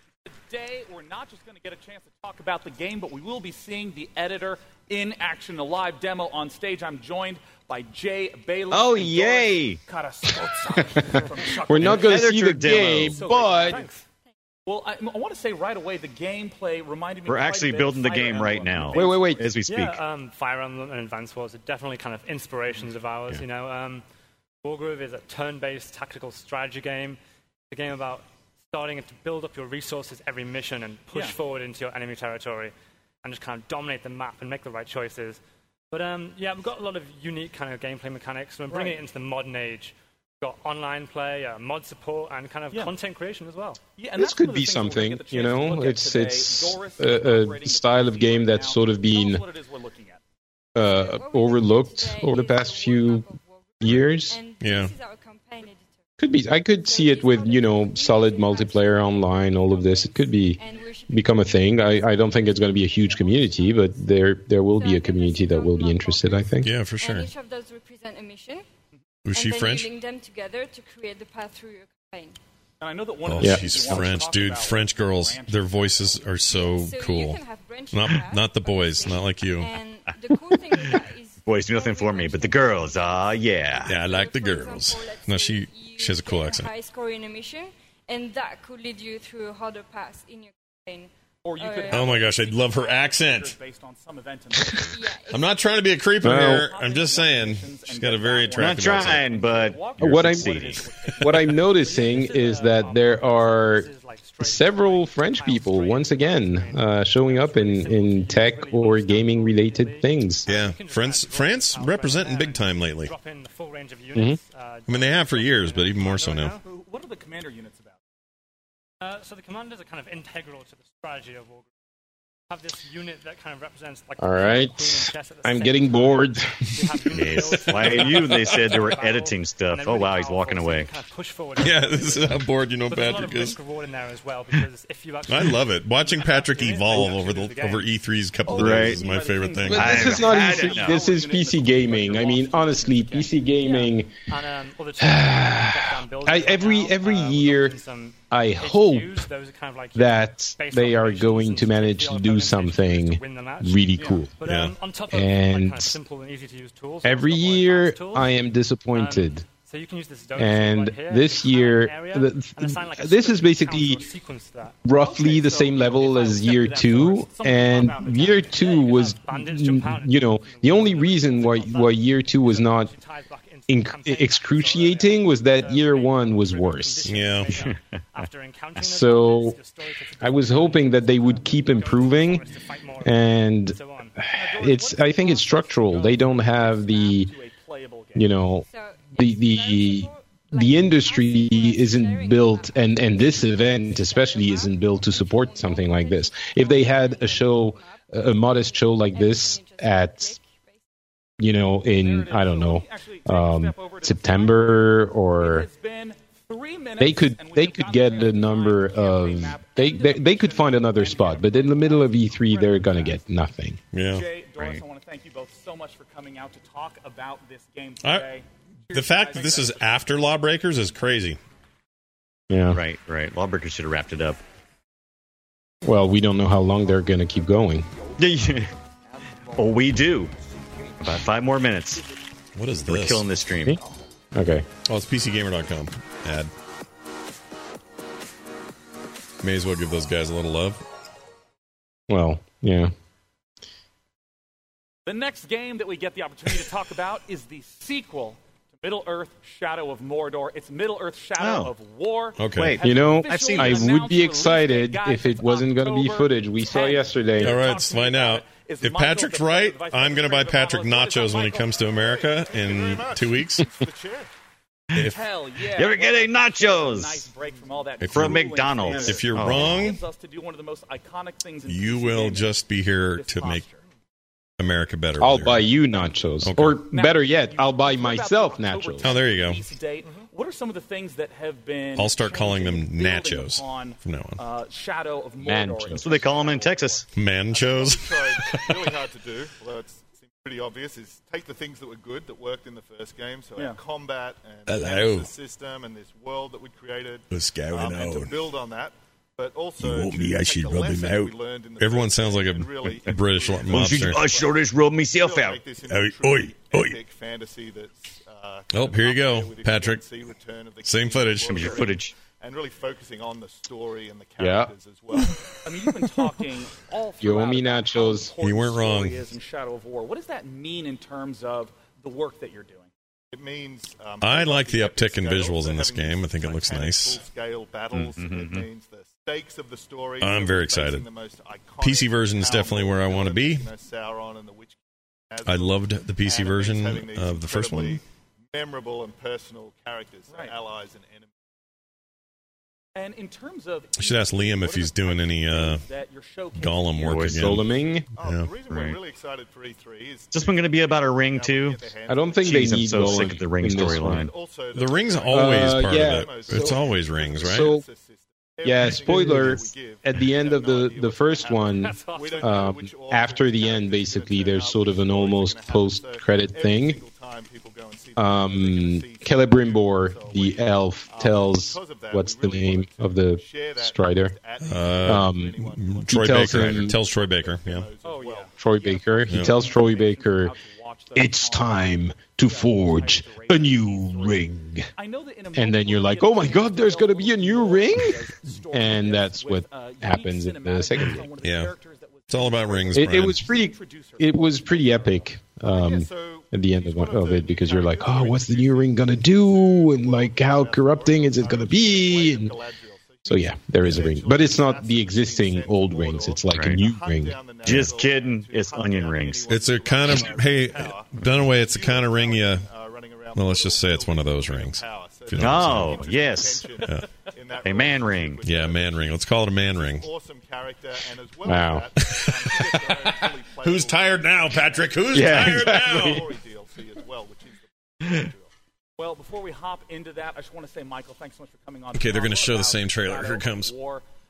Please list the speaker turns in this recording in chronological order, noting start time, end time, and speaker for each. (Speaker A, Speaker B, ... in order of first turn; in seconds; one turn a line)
Speaker A: 0.5-14.0
Speaker B: 8.7-9.8
Speaker C: 11.6-13.8
Speaker B: 11.8-13.2
Speaker A: 14.7-19.4
Speaker B: 17.2-20.0
Speaker C: 18.9-19.5
Speaker D: 19.7-24.0
Speaker D: 24.6-27.2
Speaker D: 27.7-35.4
Speaker A: 31.1-31.4
Speaker D: 35.9-43.8
Speaker A: 38.7-39.0
Speaker A: 44.0-50.2
Speaker C: 44.2-49.4
Speaker C: 50.7-53.3
Speaker E: 50.8-56.0
Speaker C: 53.8-54.4
Speaker F: 54.6-54.9
Speaker C: 56.2-66.7
Speaker E: 56.7-63.9
Speaker E: 64.7-68.6
Speaker F: 66.6-67.3
Speaker F: 69.2-69.9
Speaker E: 69.3-72.4
Speaker A: 72.8-76.2
Speaker F: 73.2-79.7
Speaker C: 73.4-74.1
Speaker E: 76.5-93.0
Speaker B: 80.6-84.0
Speaker F: 83.8-86.7
Speaker A: 91.4-94.9
Speaker F: 91.9-93.5
Speaker E: 94.9-95.5
Speaker F: 95.3-99.2
Speaker C: 96.2-96.7
Speaker A: 96.2-101.6
Speaker B: 98.6-100.9
Speaker C: 100.0-110.5
Speaker D: 101.6-116.6
Speaker F: 110.5-113.1
Speaker F: 114.8-116.6
Speaker A: 116.6-118.0
Speaker D: 119.0-121.7
Speaker D: 122.5-137.9
Speaker C: 124.2-128.2
Speaker B: 127.1-130.9
Speaker F: 131.6-133.6
Speaker F: 135.2-140.1
Speaker B: 138.5-139.0
Speaker A: 138.8-143.3
Speaker C: 139.7-144.2
Speaker B: 139.7-141.0
Speaker D: 143.6-164.8
Speaker C: 145.0-149.3
Speaker C: 149.9-154.3
Speaker F: 154.4-154.8
Speaker C: 155.1-155.9
Speaker C: 157.0-159.4
Speaker C: 160.3-164.0
Speaker C: 164.8-172.9
Speaker A: 164.9-168.9
Speaker D: 168.5-184.2
Speaker C: 173.7-177.3
Speaker F: 177.1-177.6
Speaker C: 178.8-179.6
Speaker C: 180.2-182.4
Speaker C: 183.0-187.3
Speaker A: 184.3-188.4
Speaker C: 188.2-200.4
Speaker E: 188.7-200.8
Speaker C: 201.4-205.7
Speaker A: 201.8-213.2
Speaker C: 207.0-213.8
Speaker F: 213.9-214.2
Speaker A: 214.1-220.1
Speaker F: 218.0-218.3
Speaker F: 218.9-221.4
Speaker C: 222.5-222.8
Speaker B: 222.7-224.4
Speaker C: 225.8-227.9
Speaker B: 228.2-228.7
Speaker B: 229.5-230.3
Speaker B: 231.0-232.0
Speaker F: 232.5-233.3
Speaker B: 232.8-233.8
Speaker C: 234.3-234.7
Speaker F: 234.8-236.5
Speaker F: 239.4-240.8
Speaker C: 242.1-242.9
Speaker A: 245.1-261.9
Speaker B: 251.4-251.7
Speaker F: 252.4-252.8
Speaker B: 252.6-254.0
Speaker C: 252.8-257.6
Speaker F: 257.4-263.7
Speaker G: 261.8-264.3
Speaker A: 264.9-272.5
Speaker B: 265.7-267.3
Speaker F: 268.0-270.0
Speaker B: 268.1-269.9
Speaker F: 271.7-273.6
Speaker A: 273.1-273.8
Speaker F: 274.6-275.6
Speaker C: 275.2-279.1
Speaker F: 276.4-276.8
Speaker A: 276.9-287.0
Speaker F: 279.0-279.6
Speaker F: 282.0-284.4
Speaker C: 285.4-286.0
Speaker B: 285.9-287.1
Speaker F: 287.1-288.8
Speaker G: 287.5-315.4
Speaker A: 293.6-293.8
Speaker F: 294.6-295.3
Speaker F: 297.3-298.4
Speaker F: 299.8-304.3
Speaker B: 303.7-305.6
Speaker F: 305.9-307.0
Speaker F: 308.7-310.1
Speaker F: 310.8-311.8
Speaker B: 311.5-312.1
Speaker C: 314.4-314.7
Speaker A: 315.6-322.9
Speaker C: 317.2-318.3
Speaker F: 318.4-319.2
Speaker G: 323.3-334.8
Speaker F: 324.2-327.2
Speaker B: 327.9-328.6
Speaker F: 330.2-331.1
Speaker F: 331.8-333.7
Speaker G: 335.3-341.3
Speaker F: 335.4-338.0
Speaker A: 340.3-340.5
Speaker A: 342.9-347.3
Speaker F: 344.0-345.8
Speaker F: 346.5-347.6
Speaker B: 347.0-347.5
Speaker C: 347.4-348.1
Speaker G: 348.2-378.5
Speaker F: 348.2-348.5
Speaker B: 348.7-349.0
Speaker B: 350.3-351.8
Speaker C: 352.1-354.3
Speaker B: 352.4-354.3
Speaker F: 354.7-357.7
Speaker C: 355.3-356.8
Speaker C: 357.4-357.8
Speaker C: 358.6-367.0
Speaker D: 361.9-362.3
Speaker C: 368.2-374.4
Speaker F: 374.6-377.9
Speaker C: 375.0-377.0
Speaker A: 378.0-395.2
Speaker C: 378.6-380.5
Speaker F: 379.3-379.5
Speaker C: 381.1-384.9
Speaker C: 385.5-391.3
Speaker F: 391.4-391.7
Speaker F: 392.3-393.4
Speaker C: 392.9-402.5
Speaker G: 395.6-428.5
Speaker C: 403.2-407.7
Speaker B: 406.5-406.8
Speaker B: 407.6-409.5
Speaker F: 409.5-412.7
Speaker F: 413.3-416.0
Speaker B: 415.4-416.7
Speaker F: 416.8-417.1
Speaker B: 417.6-418.4
Speaker F: 418.4-420.1
Speaker C: 421.4-421.9
Speaker F: 422.0-426.2
Speaker B: 425.1-425.8
Speaker C: 425.1-426.2
Speaker A: 429.0-434.0
Speaker F: 431.9-433.7